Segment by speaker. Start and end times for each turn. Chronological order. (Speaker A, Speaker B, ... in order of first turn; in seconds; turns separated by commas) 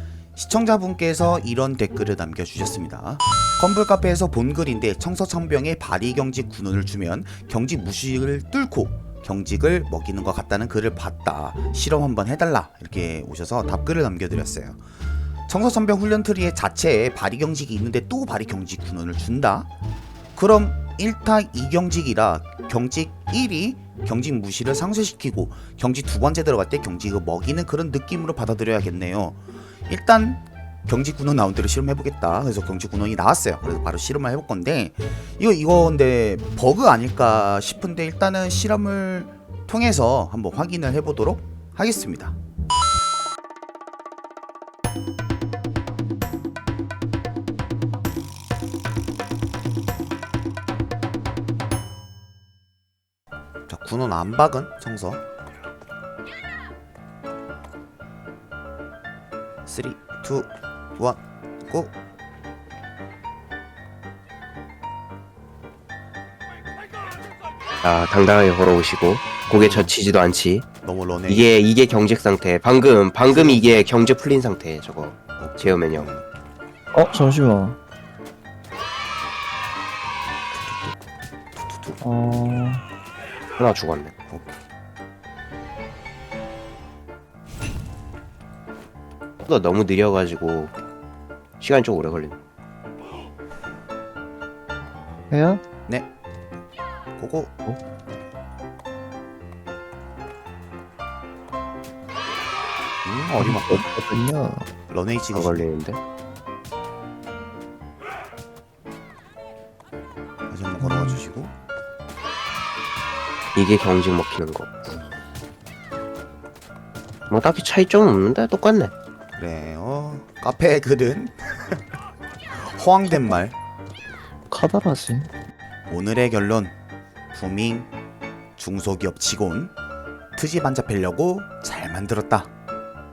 Speaker A: 0.3-14.8, Speaker A: 15.5-19.7, Speaker A: 20.3-42.4, Speaker A: 53.7-55.2, Speaker A: 59.6-62.0, Speaker B: 67.8-70.7, Speaker A: 69.5-70.0, Speaker A: 70.8-71.5, Speaker B: 71.2-76.1, Speaker A: 73.2-73.8, Speaker A: 75.4-76.2, Speaker C: 76.9-77.8, Speaker A: 80.6-81.0, Speaker A: 81.6-82.0, Speaker C: 82.0-82.8, Speaker B: 83.6-84.2, Speaker A: 84.3-84.6, Speaker B: 89.4-90.7, Speaker B: 91.6-92.4, Speaker C: 95.3-95.6, Speaker A: 97.2-97.5, Speaker A: 103.0-103.9, Speaker C: 103.4-104.7, Speaker A: 104.9-105.7, Speaker B: 105.3-106.0, Speaker A: 110.5-111.5, Speaker C: 110.8-111.2, Speaker B: 113.5-114.7, Speaker B: 117.3-118.9, Speaker A: 119.3-121.8, Speaker A: 122.5-123.6, Speaker C: 124.5-125.3, Speaker A: 125.9-126.7, Speaker A: 127.3-127.9, Speaker A: 128.6-129.7, Speaker A: 130.3-132.5